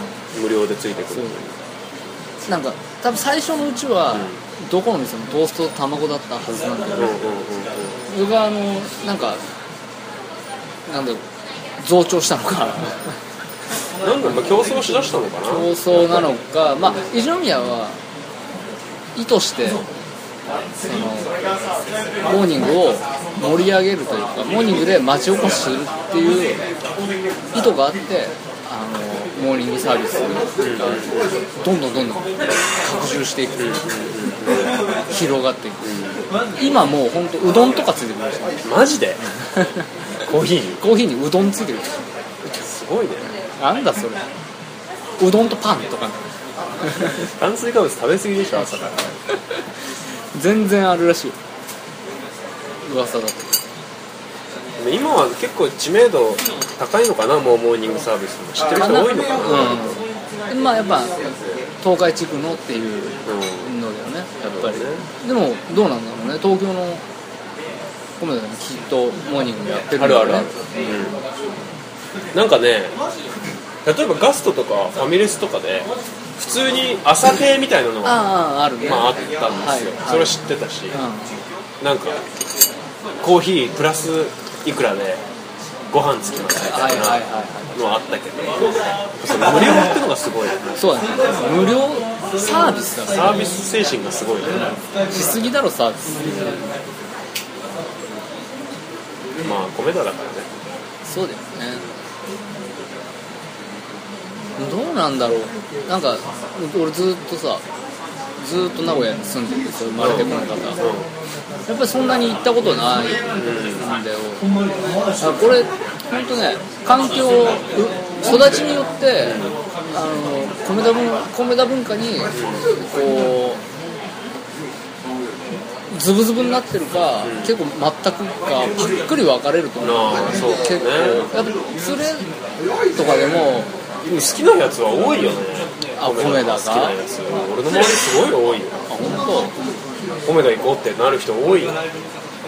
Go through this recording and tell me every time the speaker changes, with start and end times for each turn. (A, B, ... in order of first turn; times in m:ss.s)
0:00.3-0:01.4 A
0:01.1-0:01.4 B
0:02.5-0:07.2 B
0:06.9-0:08.0 A
0:08.1-0:09.4 B
0:10.9-0:11.2 B
0:11.8-0:13.2 B
0:14.0-0:16.2 A
0:15.4-0:18.0 B
0:19.1-0:19.8 B
0:20.8-0:21.3 B
0:22.2-0:26.6 B
0:27.5-0:31.0 B
0:30.6-0:31.1 A
0:31.6-0:32.3 B
0:32.8-0:33.8 B
0:33.6-0:34.8 A
0:35.1-0:35.9 B
0:35.8-0:36.2 A
0:36.6-0:38.6 B
0:38.6-0:39.2 A
0:39.4-0:39.8 B
0:40.2-0:40.8 A
0:40.8-0:42.0 B
0:42.4-0:43.3 A
0:43.6-0:44.2 B
0:45.2-0:46.2 B
0:46.8-0:47.2 B
0:47.1-0:49.2 A
0:50.3-0:51.4 B
0:52.8-0:53.5 B
0:54.8-1:00.0 A
0:58.7-1:01.2 B
1:01.8-1:07.0 B
1:03.2-1:03.6 A
1:04.4-1:05.0 A
1:08.2-1:10.5 B
1:10.0-1:11.2 A
1:12.3-1:13.0 A
1:13.8-1:18.2 A
1:18.0-1:20.4 B
1:18.8-1:21.0 A
1:20.9-1:21.4 B
1:21.8-1:22.2 A
1:23.2-1:25.2 A
1:25.9-1:28.7 A
1:26.6-1:27.7 B
1:29.2-1:30.7 A
1:30.8-1:33.5 B
1:33.1-1:34.8 A
1:35.1-1:36.6 B
1:39.4-1:40.5 A
1:41.0-1:41.8 B
1:44.6-1:47.6 B
1:48.4-1:50.8 B
1:50.0-1:51.1 A
1:51.7-1:54.4 B
1:53.4-1:53.8 A
1:55.2-2:03.6 B
1:59.2-1:59.5 A
2:02.3-2:02.6 A
2:05.9-2:12.3 B
2:07.2-2:07.5 A
2:09.8-2:11.3 A
2:12.9-2:13.7 B
2:14.0-2:18.8 A
2:15.9-2:16.9 B
2:18.9-2:19.5 B
2:20.2-2:21.8 A